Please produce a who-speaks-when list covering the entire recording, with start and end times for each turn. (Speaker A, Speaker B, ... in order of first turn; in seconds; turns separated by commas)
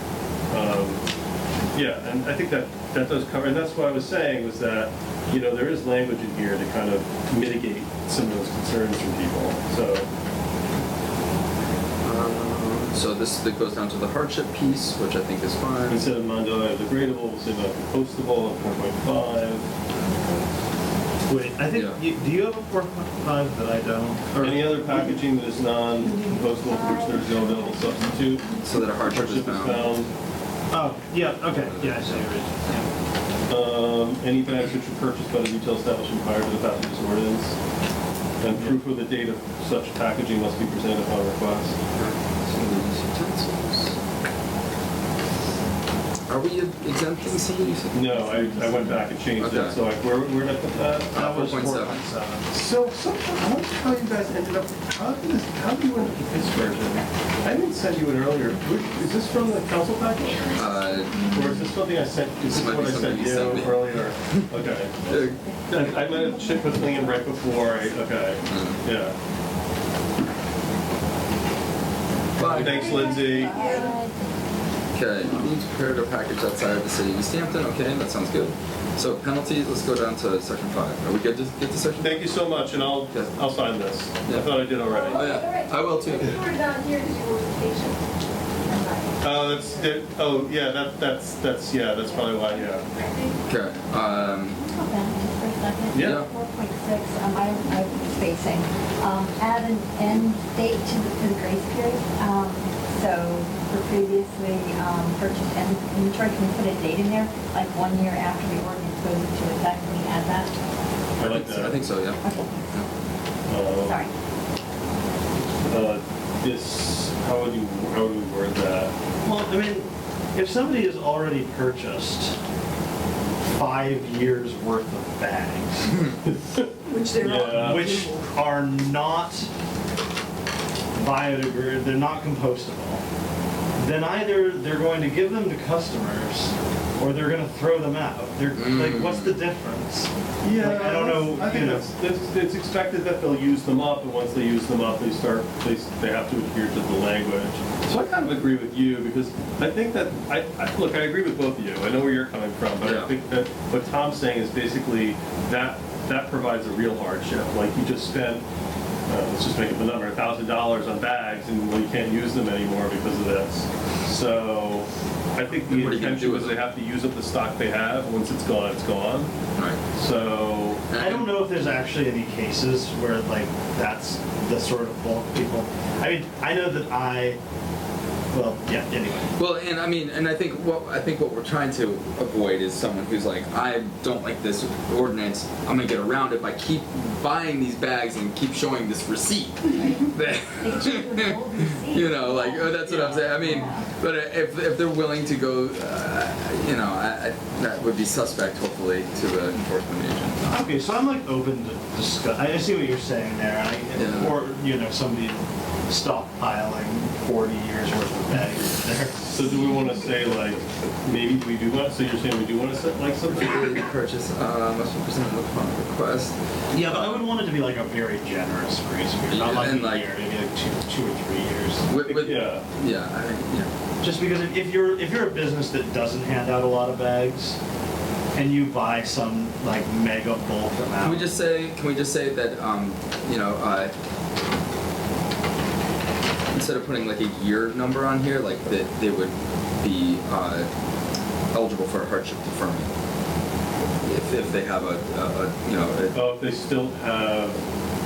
Speaker A: 0.5-1.0, Speaker A: 1.7-10.1, Speaker B: 12.0-16.1, Speaker A: 15.9-19.7, Speaker C: 21.3-24.3, Speaker B: 21.7-22.0, Speaker A: 24.3-28.5, Speaker B: 24.4-24.8, Speaker D: 26.1-28.6, Speaker B: 28.6-30.0, Speaker A: 29.1-30.1, Speaker C: 30.7-32.9, Speaker B: 31.5-32.7, Speaker A: 33.5-37.6, Speaker A: 38.4-41.8, Speaker C: 38.5-38.8, Speaker B: 41.9-44.0, Speaker B: 46.3-49.8, Speaker A: 47.9-51.3, Speaker B: 51.1-52.0, Speaker C: 51.1-52.6, Speaker A: 52.5-60.6, Speaker B: 60.5-61.3, Speaker A: 61.3-65.0, Speaker B: 62.5-64.0, Speaker E: 65.0-65.5, Speaker B: 65.1-65.4, Speaker A: 65.7-69.2, Speaker B: 68.5-68.8, Speaker B: 72.4-73.0, Speaker A: 72.4-73.6, Speaker D: 72.7-74.0, Speaker E: 72.9-74.1, Speaker B: 74.9-83.7, Speaker A: 82.0-85.3, Speaker B: 84.2-84.6, Speaker D: 84.8-88.0, Speaker B: 85.1-86.4, Speaker D: 88.6-90.0, Speaker A: 89.2-92.9, Speaker D: 92.1-93.4, Speaker B: 93.5-94.6, Speaker E: 94.3-110.5, Speaker A: 95.9-96.2, Speaker B: 96.0-96.3, Speaker B: 111.2-112.9, Speaker A: 111.2-111.9, Speaker E: 112.2-112.7, Speaker A: 113.5-114.1, Speaker E: 113.8-114.1, Speaker A: 115.7-118.9, Speaker C: 119.2-122.4, Speaker C: 123.5-126.1, Speaker A: 126.3-127.9, Speaker D: 126.9-128.3, Speaker C: 127.4-129.5, Speaker C: 130.9-133.0, Speaker C: 133.8-141.9, Speaker B: 138.5-139.4, Speaker A: 140.4-158.4, Speaker B: 152.8-153.1, Speaker A: 159.1-169.3, Speaker B: 165.7-166.7, Speaker B: 169.6-169.8, Speaker A: 169.9-170.8, Speaker B: 170.9-171.4, Speaker C: 171.0-177.4, Speaker C: 178.3-179.3, Speaker B: 179.4-200.6, Speaker E: 189.7-193.9, Speaker C: 192.9-193.7, Speaker C: 200.5-209.3, Speaker B: 204.0-204.4, Speaker A: 209.3-213.8, Speaker B: 213.3-217.3, Speaker C: 216.7-222.2, Speaker B: 219.3-220.1, Speaker B: 221.9-223.7, Speaker A: 222.1-222.6, Speaker C: 224.0-227.6, Speaker C: 228.3-231.3, Speaker B: 230.9-233.9, Speaker B: 236.5-240.7, Speaker B: 241.5-242.9, Speaker B: 244.0-246.3, Speaker A: 246.1-247.6